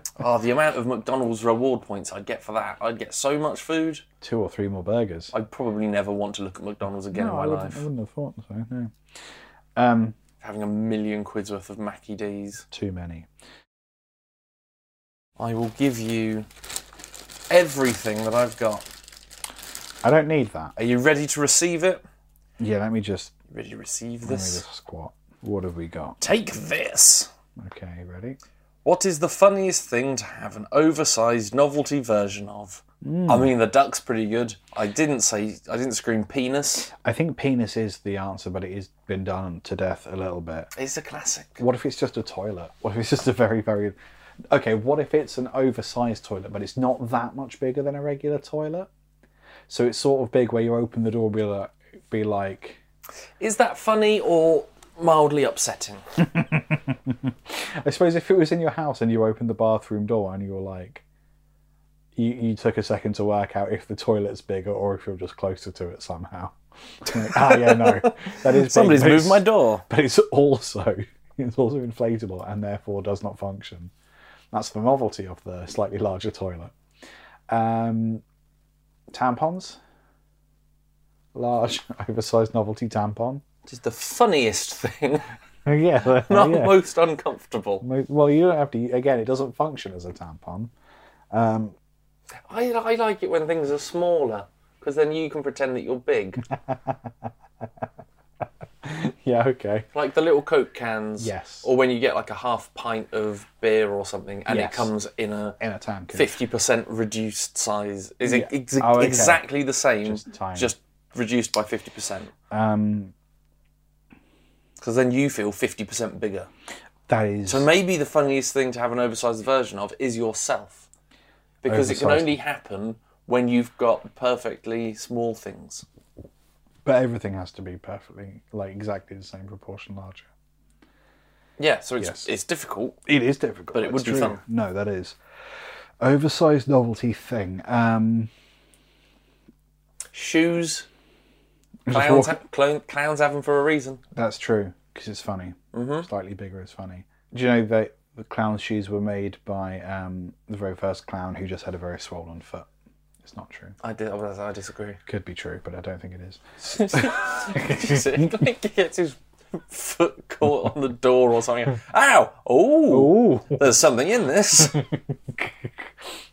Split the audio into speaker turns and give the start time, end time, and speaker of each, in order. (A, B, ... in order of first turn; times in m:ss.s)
0:00.2-0:04.0 A
0:04.2-0:05.3 B
0:05.3-0:07.9 A
0:07.1-0:09.0 B
0:09.8-0:10.2 B
0:10.4-0:12.6 A
0:12.7-0:13.3 B
0:15.4-0:16.5 A
0:17.5-0:18.9 A
0:20.0-0:20.7 B
0:20.8-0:22.0 A
0:22.6-0:23.3 B
0:23.5-0:24.6 A
0:24.2-0:26.2 B
0:26.2-0:27.3 A
0:27.6-0:28.4 B
0:28.8-0:36.9 A
0:33.0-0:33.5 B
0:37.0-0:40.7 B
0:40.8-0:41.6 A
0:41.6-0:43.9 B
0:44.5-0:48.9 B
0:49.7-0:52.8 B
0:53.4-0:56.0 A
0:56.3-1:01.0 B
1:02.2-1:13.9 B
1:07.2-1:09.8 A
1:14.5-1:16.7 B
1:17.5-1:18.2 B
1:19.1-1:19.8 B
1:21.3-1:23.4 B
1:23.7-1:25.3 A
1:25.6-1:26.8 B
1:26.0-1:27.8 A
1:27.8-1:30.7 B
1:31.3-1:31.7 B
1:32.5-1:36.4 A
1:36.5-1:37.3 B
1:38.8-1:39.9 B
1:39.9-1:45.6 A
1:41.2-1:41.7 B
1:44.5-1:44.9 B
1:45.6-1:46.4 B
1:46.1-1:52.3 A
1:48.2-1:49.4 B
1:50.0-1:50.7 B
1:52.5-1:53.1 B
1:54.8-1:56.5 A
1:57.1-1:57.7 B
1:57.5-2:00.9 A
2:01.6-2:05.8 A
2:01.6-2:02.4 B
2:06.8-2:10.3 B
2:11.6-2:13.0 A
2:12.0-2:12.3 B
2:13.0-2:15.2 B
2:13.7-2:14.4 A
2:16.0-2:18.3 B
2:20.1-2:20.9 A
2:21.9-2:22.4 B
2:21.9-2:24.0 A
2:24.1-2:32.7 B
2:25.7-2:26.1 A
2:33.2-2:33.8 B
2:33.8-2:35.0 A
2:35.0-2:38.2 B
2:36.7-2:44.8 A
2:42.9-2:43.7 B
2:45.1-2:45.9 B